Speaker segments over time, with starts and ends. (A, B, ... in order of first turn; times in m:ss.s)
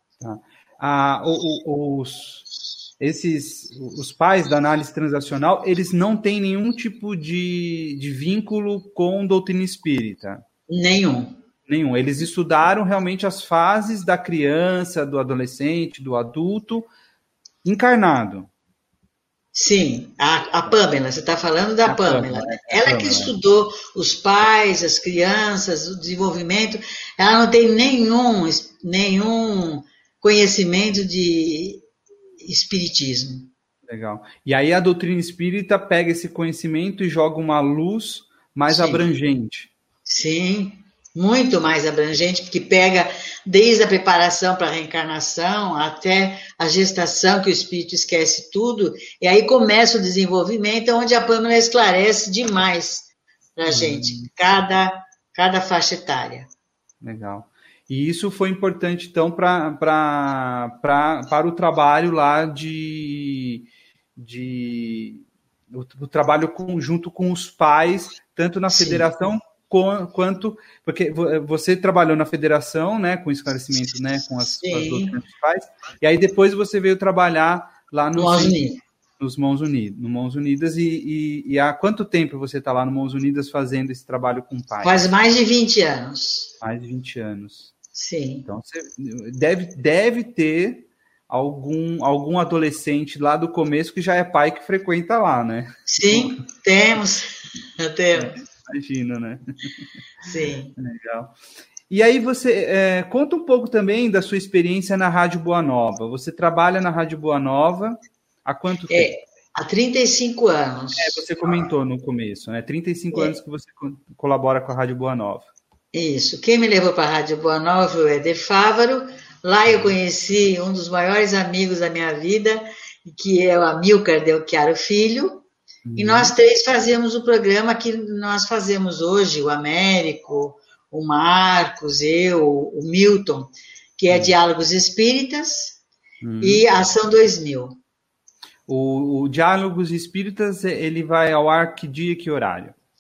0:00.2-0:02.4 A
0:03.0-0:10.4 A
0:10.7-0:11.4 B
0:11.7-0:16.9 A
0:17.6-0:18.5 A
0:19.5-0:31.8 B
0:21.8-0:23.3 A
0:32.4-0:33.5 B
0:33.9-0:39.7 A
0:38.7-0:39.0 B
0:40.1-0:56.5 B
0:53.7-0:54.3 A
0:57.0-1:18.6 A
1:08.7-1:09.0 B
1:14.6-1:15.2 B
1:18.1-1:18.8 B
1:19.2-1:25.0 A
1:24.8-1:26.5 B
1:26.6-1:27.7 A
1:27.9-1:28.5 B
1:28.4-1:36.4 A
1:35.9-1:38.4 B
1:38.1-1:39.8 A
1:40.2-1:40.7 B
1:40.8-1:41.3 A
1:41.9-1:49.1 A
1:48.9-1:51.2 B
1:50.9-1:55.5 A
1:55.9-2:05.4 B
1:59.7-1:59.9 A
2:05.8-2:06.3 A
2:06.0-2:15.8 B
2:16.2-2:16.6 A
2:16.4-2:17.8 B
2:18.7-2:22.7 A